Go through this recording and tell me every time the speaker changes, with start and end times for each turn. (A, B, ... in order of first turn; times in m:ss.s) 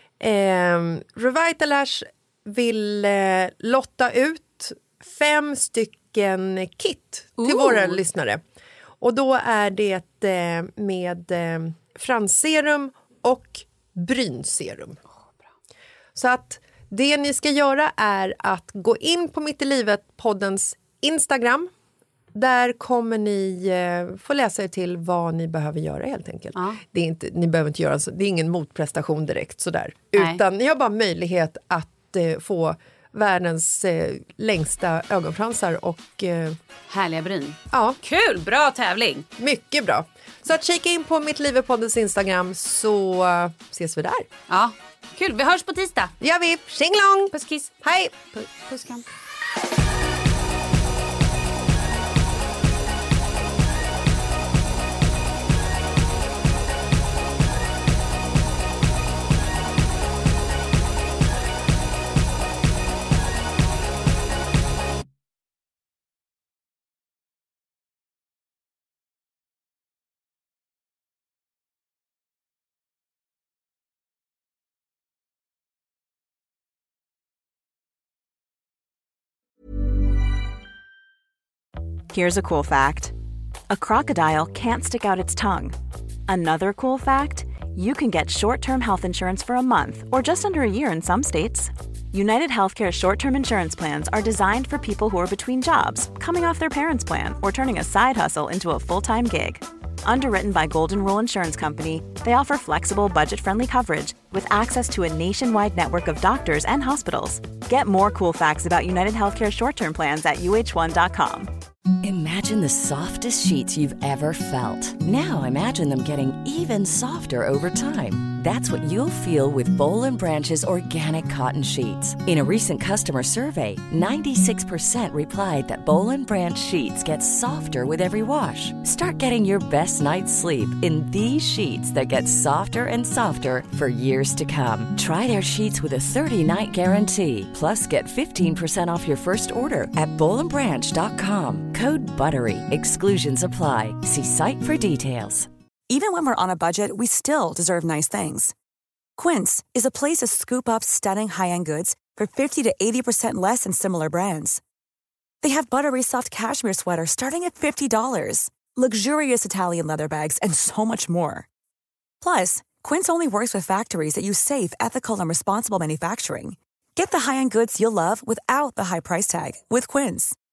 0:00.2-0:08.4 A
0:07.4-0:08.0 B
0:09.0-0:15.0 A
0:16.2-0:21.7 A
0:22.3-0:36.6 A
0:26.6-0:26.8 B
0:30.2-0:30.4 B
0:36.9-0:39.3 B
0:37.7-0:38.0 A
0:39.4-0:44.3 A
0:44.5-0:46.1 B
0:46.2-0:48.1 A
0:47.3-0:49.0 B
1:22.1-1:23.2 C
1:23.7-1:25.8 C
1:26.3-1:51.5 C
1:52.0-2:25.5 D
2:25.9-2:28.5 E
2:29.2-2:34.6 E
2:35.4-2:41.5 E
2:42.2-2:50.4 E